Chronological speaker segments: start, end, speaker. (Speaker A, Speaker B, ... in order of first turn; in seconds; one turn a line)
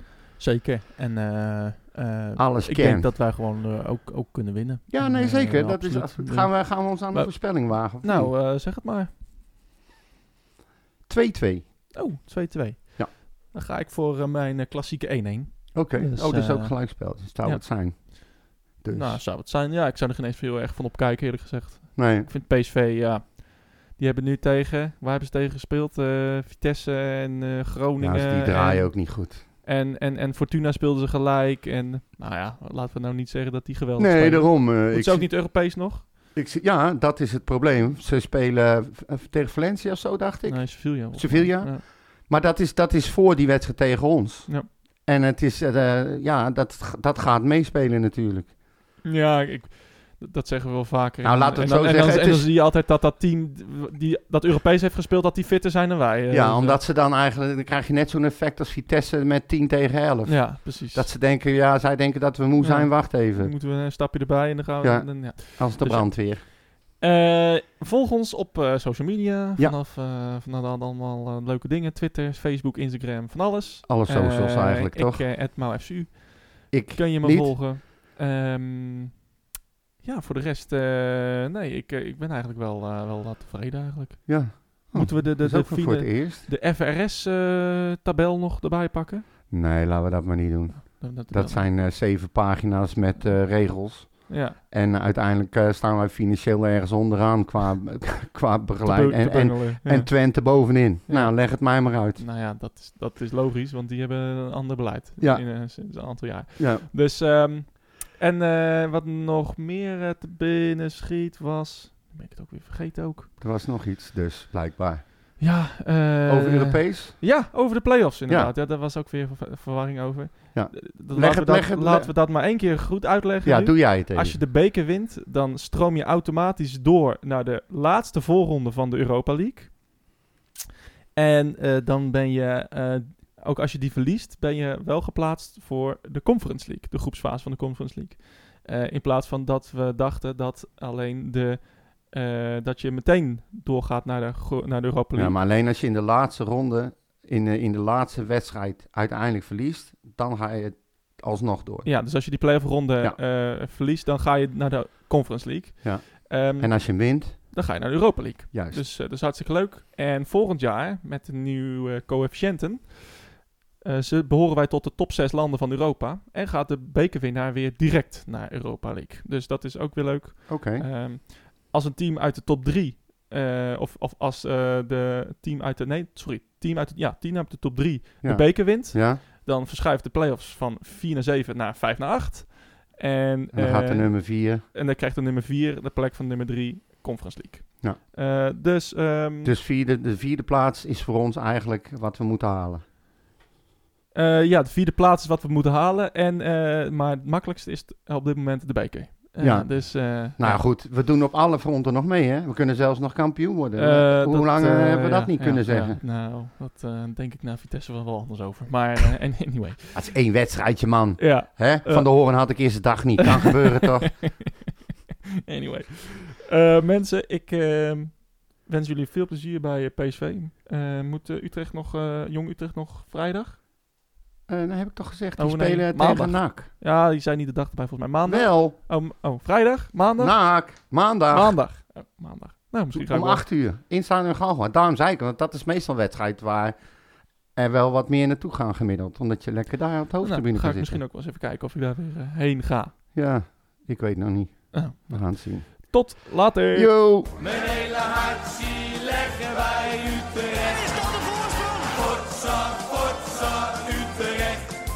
Speaker A: 0.3-9.1
Speaker B: 2.4-3.1
Speaker B: 4.9-8.3
Speaker B: 11.1-11.7
Speaker A: 11.9-18.3
Speaker B: 15.7-19.2
Speaker A: 18.9-36.1
Speaker B: 22.0-22.3
Speaker B: 28.0-29.4
Speaker B: 34.0-35.5
Speaker B: 36.3-48.5
Speaker A: 40.5-41.8
Speaker A: 49.0-56.8
Speaker B: 51.2-52.5
Speaker B: 56.3-63.6
Speaker A: 60.3-61.1
Speaker A: 62.6-79.2
Speaker B: 64.8-66.4
Speaker B: 73.9-75.3
Speaker B: 76.7-77.8
Speaker A: 80.0-89.3
Speaker B: 84.3-86.5
Speaker B: 89.5-102.2
Speaker A: 90.7-91.7
Speaker A: 94.3-94.6
Speaker A: 98.8-113.3
Speaker B: 105.2-106.9
Speaker B: 113.4-115.4
Speaker A: 115.4-129.9
Speaker B: 116.3-117.4
Speaker B: 118.3-118.5
Speaker B: 120.5-122.1
Speaker B: 123.4-124.4
Speaker A: 131.2-145.4
Speaker B: 145.2-151.9
Speaker A: 151.8-189.5
Speaker B: 155.8-157.6
Speaker B: 158.5-158.9
Speaker B: 170.5-170.9
Speaker B: 178.2-179.2
Speaker B: 183.5-184.7
Speaker B: 189.4-192.8
Speaker A: 194.1-200.7
Speaker B: 199.4-206.0
Speaker A: 203.8-210.0
Speaker B: 209.9-214.4
Speaker A: 211.2-214.4
Speaker A: 215.5-223.6
Speaker B: 224.5-226.7
Speaker A: 225.4-230.4
Speaker B: 228.3-228.8
Speaker B: 230.2-231.8
Speaker A: 231.3-233.4
Speaker B: 232.9-236.8
Speaker B: 237.5-241.0
Speaker A: 240.2-243.0
Speaker B: 243.1-246.2
Speaker A: 244.7-246.9
Speaker B: 246.7-247.4
Speaker C: 247.7-251.1
Speaker C: 251.9-254.5